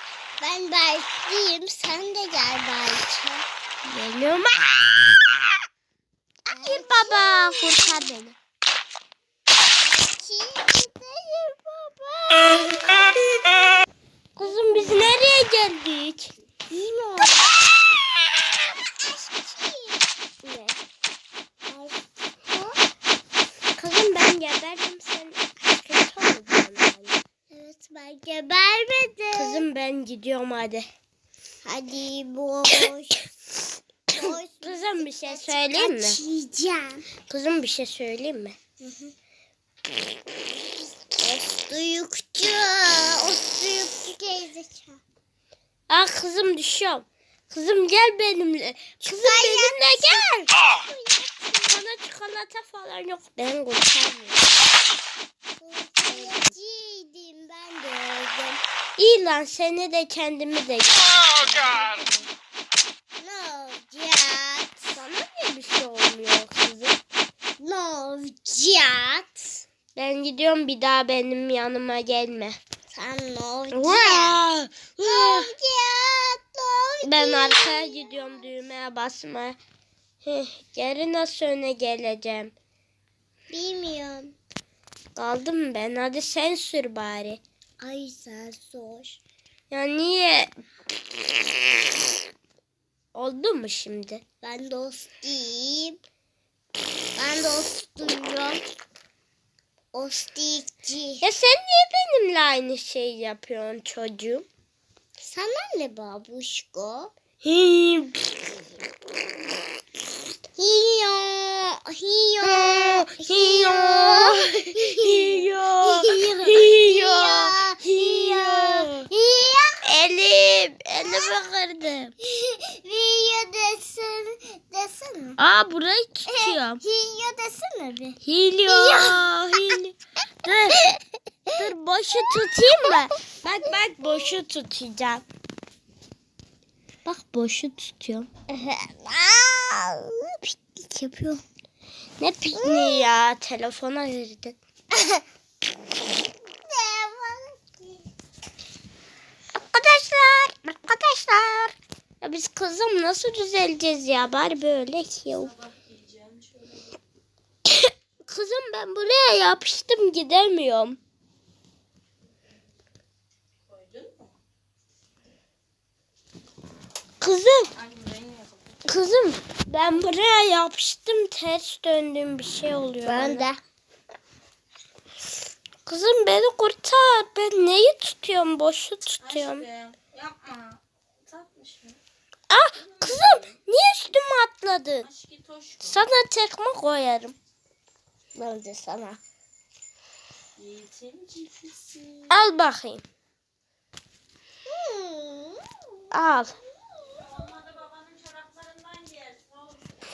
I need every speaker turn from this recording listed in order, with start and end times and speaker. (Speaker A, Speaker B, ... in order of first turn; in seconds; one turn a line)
Speaker A: 0.4-3.5
Speaker B: 3.9-5.2
Speaker A: 6.5-8.1
Speaker B: 6.5-8.4
Speaker A: 9.7-13.5
Speaker B: 14.4-16.3
Speaker A: 14.4-15.1
Speaker A: 16.7-20.1
Speaker B: 20.4-20.8
Speaker A: 21.7-22.8
Speaker B: 23.8-27.2
Speaker A: 27.5-29.6
Speaker B: 29.3-30.9
Speaker A: 31.6-33.2
Speaker A: 34.1-37.0
Speaker B: 34.3-36.2
Speaker B: 37.3-38.6
Speaker A: 38.8-39.1
Speaker A: 41.1-45.0
Speaker B: 45.9-50.3
Speaker A: 49.0-51.8
Speaker B: 51.7-54.5
Speaker A: 55.6-58.6
Speaker B: 56.1-56.5
Speaker B: 59.0-62.3
Speaker A: 63.2-65.0
Speaker B: 64.9-67.0
Speaker A: 67.6-69.6
Speaker B: 70.0-72.6
Speaker A: 72.9-74.4
Speaker B: 73.7-75.5
Speaker A: 75.0-78.5
Speaker B: 77.0-79.6
Speaker B: 80.2-82.5
Speaker A: 83.5-84.3
Speaker B: 85.2-87.4
Speaker A: 87.8-89.2
Speaker B: 89.7-90.5
Speaker B: 93.1-94.2
Speaker A: 94.4-96.0
Speaker A: 97.2-98.6
Speaker A: 99.9-101.2
Speaker B: 101.2-104.5
Speaker A: 105.2-107.1
Speaker B: 107.4-108.4
Speaker A: 110.6-119.8
Speaker B: 112.4-119.1
Speaker B: 119.8-122.1
Speaker A: 122.2-125.4
Speaker B: 125.4-126.8
Speaker A: 126.3-129.3
Speaker B: 128.2-130.8
Speaker B: 131.6-135.2
Speaker A: 134.0-134.3
Speaker B: 137.1-138.3
Speaker A: 138.5-141.4
Speaker B: 142.2-144.6
Speaker A: 142.6-143.1
Speaker A: 144.9-145.2
Speaker A: 146.6-148.0
Speaker B: 149.6-155.6
Speaker C: 155.7-156.8
Speaker B: 157.7-161.0
Speaker C: 163.8-164.3
Speaker B: 167.2-167.7
Speaker C: 167.8-168.6
Speaker B: 168.8-173.5
Speaker A: 173.1-173.6
Speaker B: 175.9-179.7
Speaker C: 179.4-182.0
Speaker B: 182.5-185.1
Speaker C: 185.2-185.8
Speaker B: 185.8-187.4
Speaker A: 188.3-189.2
Speaker C: 190.6-191.9
Speaker B: 192.3-193.0
Speaker A: 194.7-195.6
Speaker B: 196.1-196.5
Speaker C: 197.5-199.4